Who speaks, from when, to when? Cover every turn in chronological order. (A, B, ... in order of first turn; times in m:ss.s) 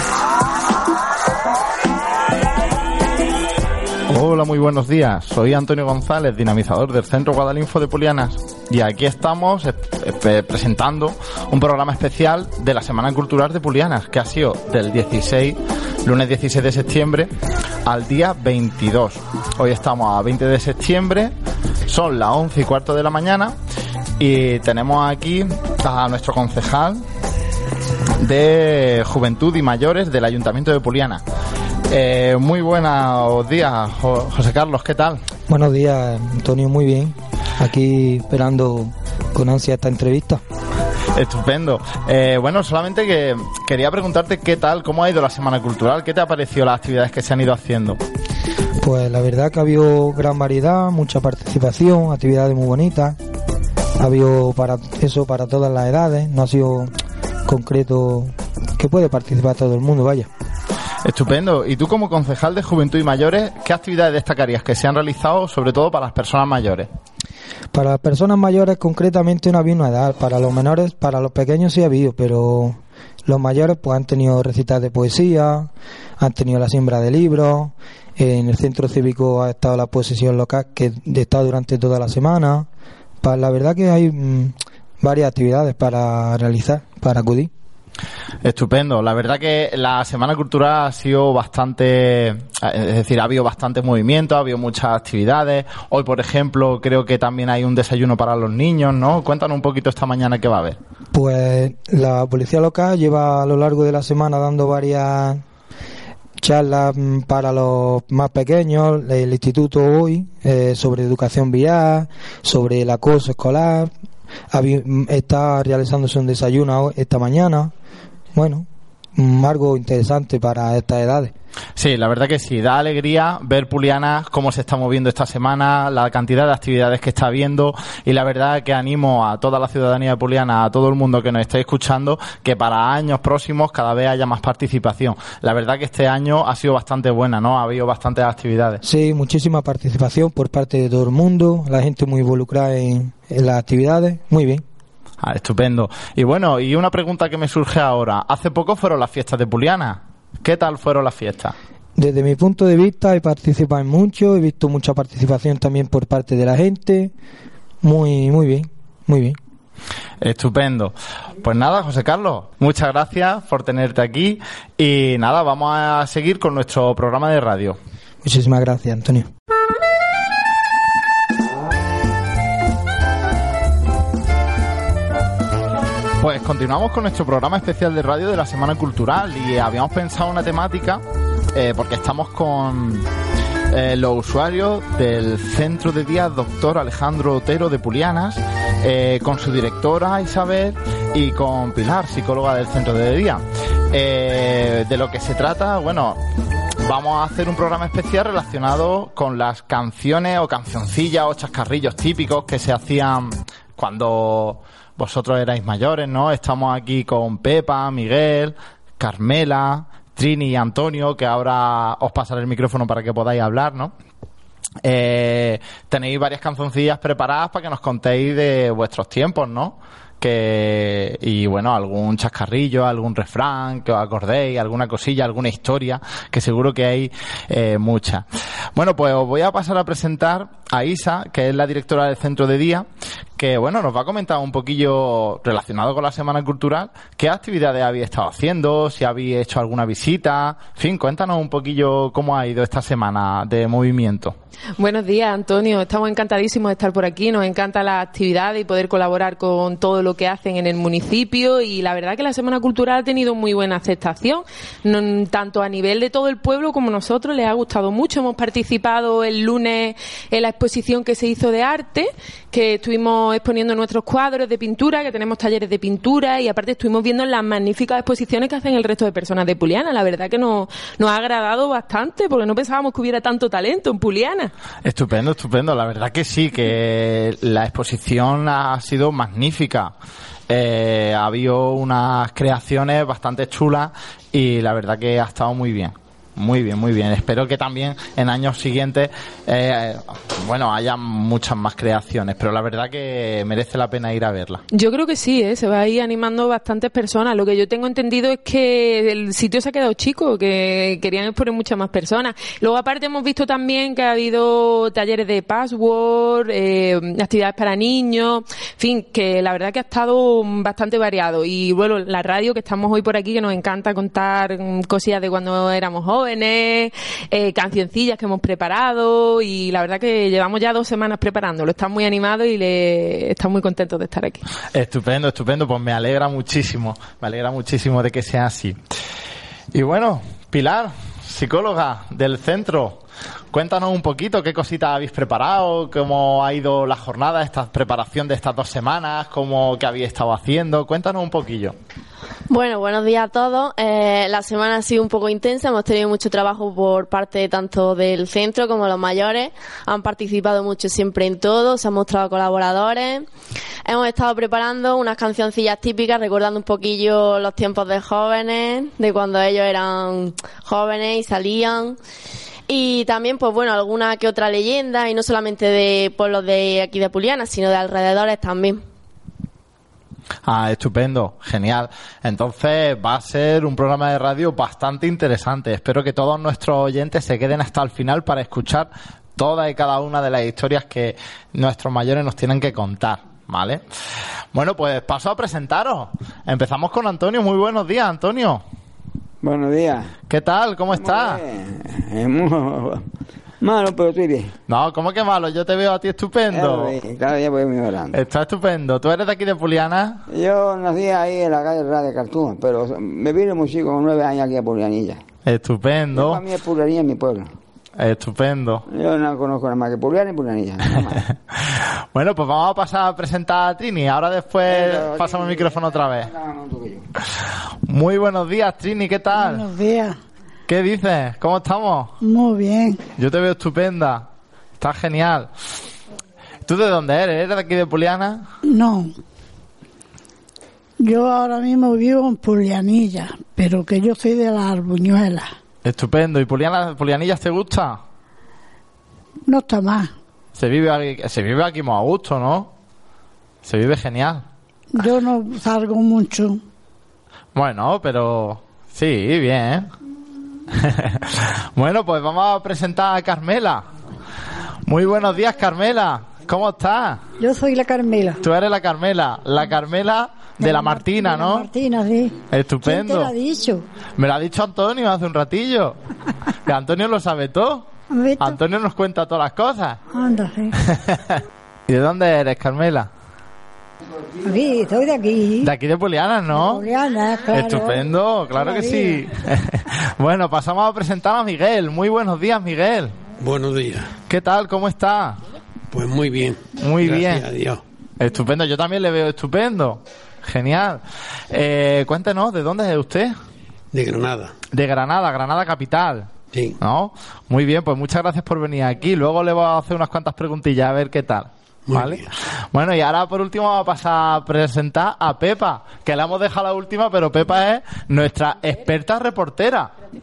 0:04.1-0:17.3 A
0:17.8-0:21.3 A
0:21.9-0:23.5 A
0:24.2-0:27.0 A
0:28.2-0:31.2 A
0:31.9-0:35.2 A
0:35.5-0:40.4 B
0:41.1-0:48.0 A
0:48.8-0:53.2 B
0:54.0-0:56.9 B
0:57.5-1:00.3 B
1:01.0-1:06.9 A
1:07.7-1:22.7 B
1:23.2-1:27.5 B
1:28.4-1:40.8 A
1:41.1-1:45.4 B
1:46.4-1:53.9 B
1:54.5-1:57.7 B
1:58.3-2:01.3 B
2:01.8-2:18.8 A
2:18.8-2:24.6 B
2:25.2-2:31.5 A
2:32.0-2:37.1 B
2:37.8-2:39.4 B
2:40.2-2:47.8 A
2:48.2-2:49.3 B
2:56.2-3:03.1 A
3:03.7-3:16.2 A
3:16.8-3:33.9 A
3:34.8-3:52.8 A
3:53.4-4:04.4 A
4:04.8-4:34.5 C
4:34.8-4:39.9 A
4:40.5-4:54.6 A
4:54.7-5:24.4 C
5:24.7-5:28.8 A
5:29.7-5:33.0 A
5:33.5-5:41.8 A
5:42.5-5:53.2 D
5:53.8-6:02.0 D
6:02.7-6:08.8 D
6:10.4-6:23.8 A
6:24.5-6:28.6 A
6:29.4-6:30.1 E
6:30.3-6:31.4 A
6:31.0-6:33.0 E
6:33.6-6:34.5 E
6:34.7-6:37.0 A
6:36.5-6:38.2 E
6:38.1-6:40.2 A
6:40.3-6:45.2 E
6:45.4-6:46.4 A
6:46.1-6:47.5 E
6:48.0-6:48.8 A
6:48.9-6:51.2 E
6:51.5-6:56.3 A
6:54.7-6:57.0 E
6:57.4-6:59.6 A
6:59.3-7:00.2 F
7:00.7-7:02.2 A
7:02.2-7:03.0 F
7:03.2-7:04.3 A
7:04.8-7:05.5 A
7:06.6-7:08.5 A
7:08.6-7:09.1 F
7:11.0-7:15.5 F
7:15.8-7:18.0 A
7:19.5-7:20.1 F
7:20.5-7:22.7 A
7:23.6-7:24.4 A
7:24.9-7:26.6 F
7:27.5-7:29.9 A
7:30.7-7:33.8 A
7:34.8-7:37.2 A
7:37.4-7:38.4 G
7:38.4-7:41.7 A
7:40.6-7:43.8 G
7:42.5-7:43.3 A
7:44.2-7:46.0 A
7:46.6-7:50.0 A
7:48.1-7:48.6 G
7:50.1-7:50.8 G
7:50.8-7:53.1 A
7:54.4-7:55.7 G
7:55.6-7:56.8 A
7:56.5-7:59.2 G
7:57.5-8:03.2 A
8:03.4-8:04.1 H
8:04.3-8:05.4 A
8:05.9-8:07.8 H
8:06.8-8:07.5 A
8:08.2-8:13.3 A
8:13.9-8:14.5 H
8:14.7-8:29.9 A
8:16.5-8:16.8 H
8:21.9-8:22.2 H